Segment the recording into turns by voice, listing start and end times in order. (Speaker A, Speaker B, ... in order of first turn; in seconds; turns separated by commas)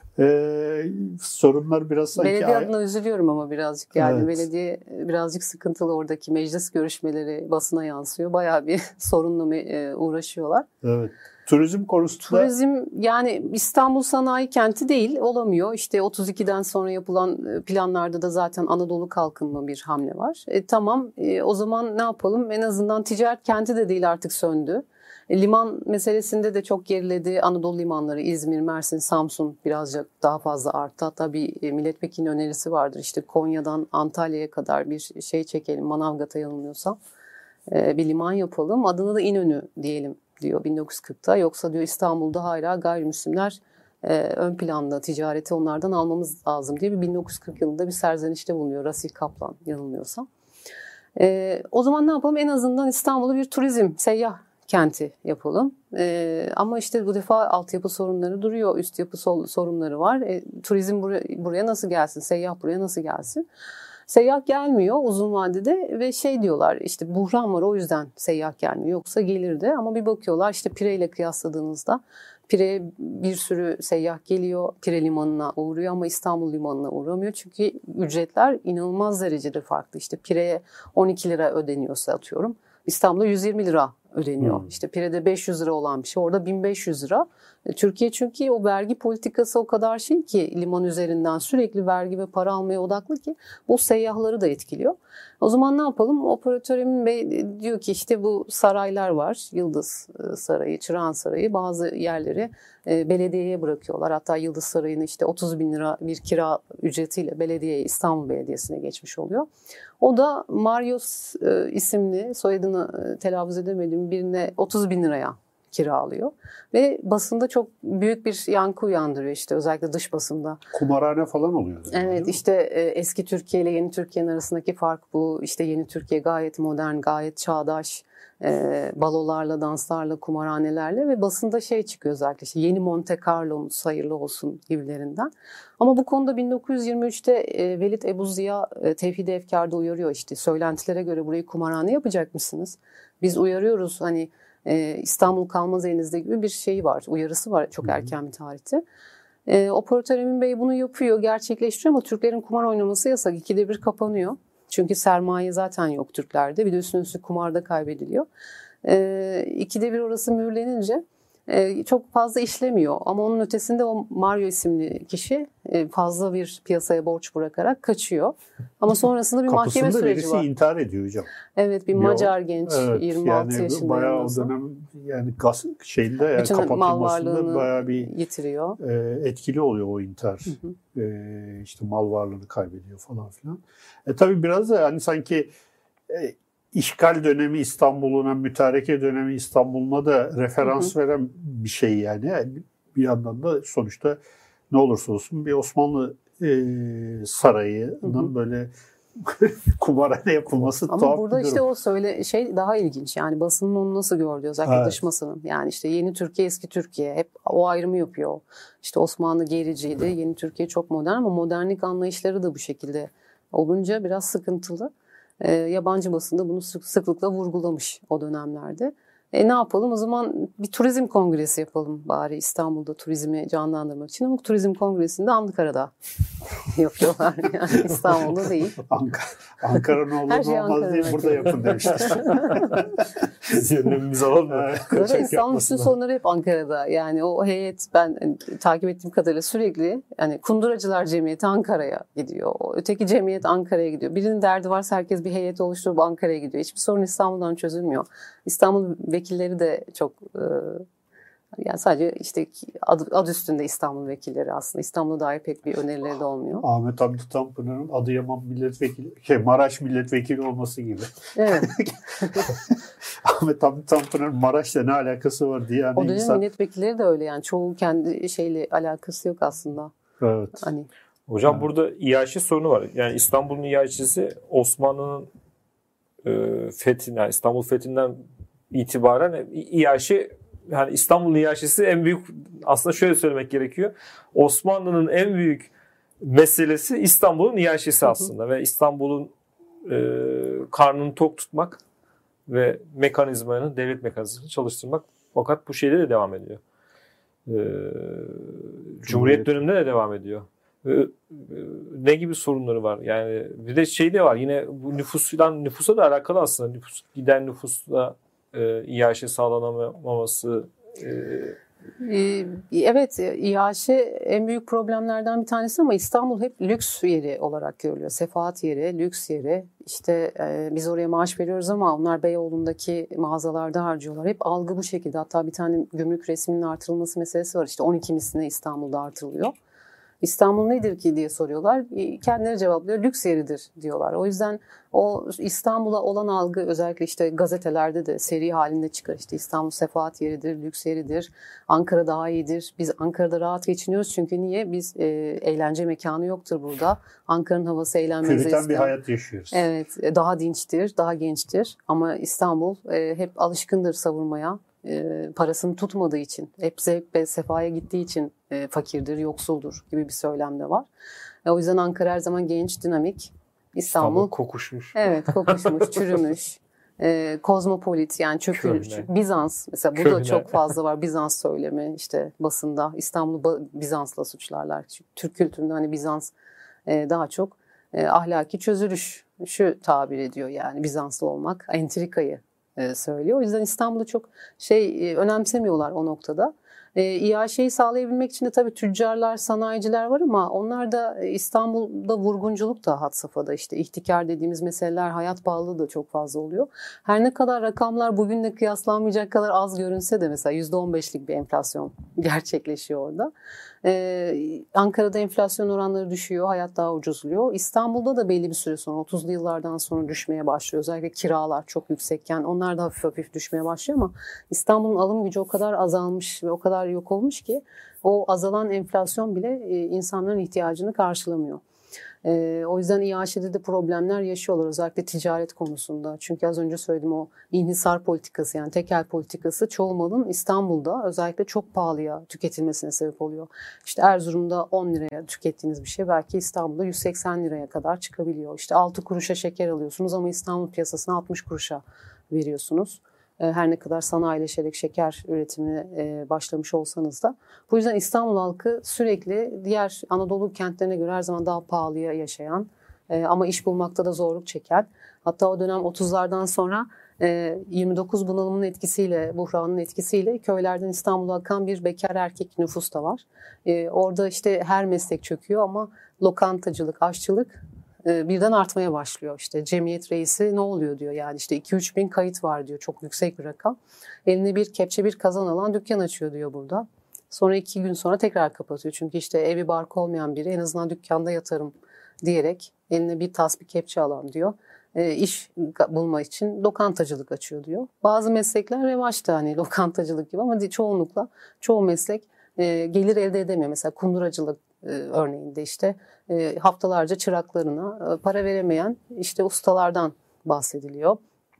Speaker A: 0.1-2.7, Speaker B: 2.2-10.7, Speaker A: 4.0-4.4, Speaker A: 10.8-12.5, Speaker B: 12.3-37.0, Speaker B: 37.7-50.2, Speaker B: 51.1-63.4, Speaker B: 64.1-109.5, Speaker A: 84.4-84.7, Speaker B: 110.0-120.6, Speaker A: 120.7-122.4, Speaker B: 121.9-148.8, Speaker B: 149.4-158.2, Speaker B: 158.8-170.4, Speaker A: 169.5-171.3, Speaker B: 171.6-174.5, Speaker A: 171.9-178.1, Speaker B: 176.4-178.8, Speaker A: 178.8-185.5, Speaker A: 186.1-194.2, Speaker A: 194.7-201.6, Speaker B: 198.0-198.3, Speaker B: 200.9-225.9, Speaker A: 204.6-205.0, Speaker B: 226.6-228.8, Speaker A: 228.8-233.6, Speaker B: 230.3-232.8, Speaker C: 233.4-235.7, Speaker A: 234.5-235.9, Speaker B: 234.9-250.8, Speaker B: 251.6-256.6, Speaker A: 256.6-266.4, Speaker B: 261.4-262.4, Speaker B: 265.9-269.9, Speaker A: 270.2-270.6, Speaker B: 270.6-270.9, Speaker C: 271.3-275.3, Speaker C: 276.2-285.7, Speaker C: 286.2-289.3, Speaker C: 289.8-291.8, Speaker C: 292.5-296.6, Speaker C: 297.5-311.6, Speaker A: 299.1-299.6, Speaker B: 312.0-329.5, Speaker B: 330.2-348.9, Speaker A: 348.2-349.6, Speaker B: 349.5-360.9, Speaker B: 361.4-364.3, Speaker C: 363.9-366.0, Speaker B: 364.9-376.3, Speaker C: 368.5-369.1, Speaker C: 369.9-370.7, Speaker B: 376.9-403.3, Speaker B: 403.8-421.6, Speaker B: 422.2-501.2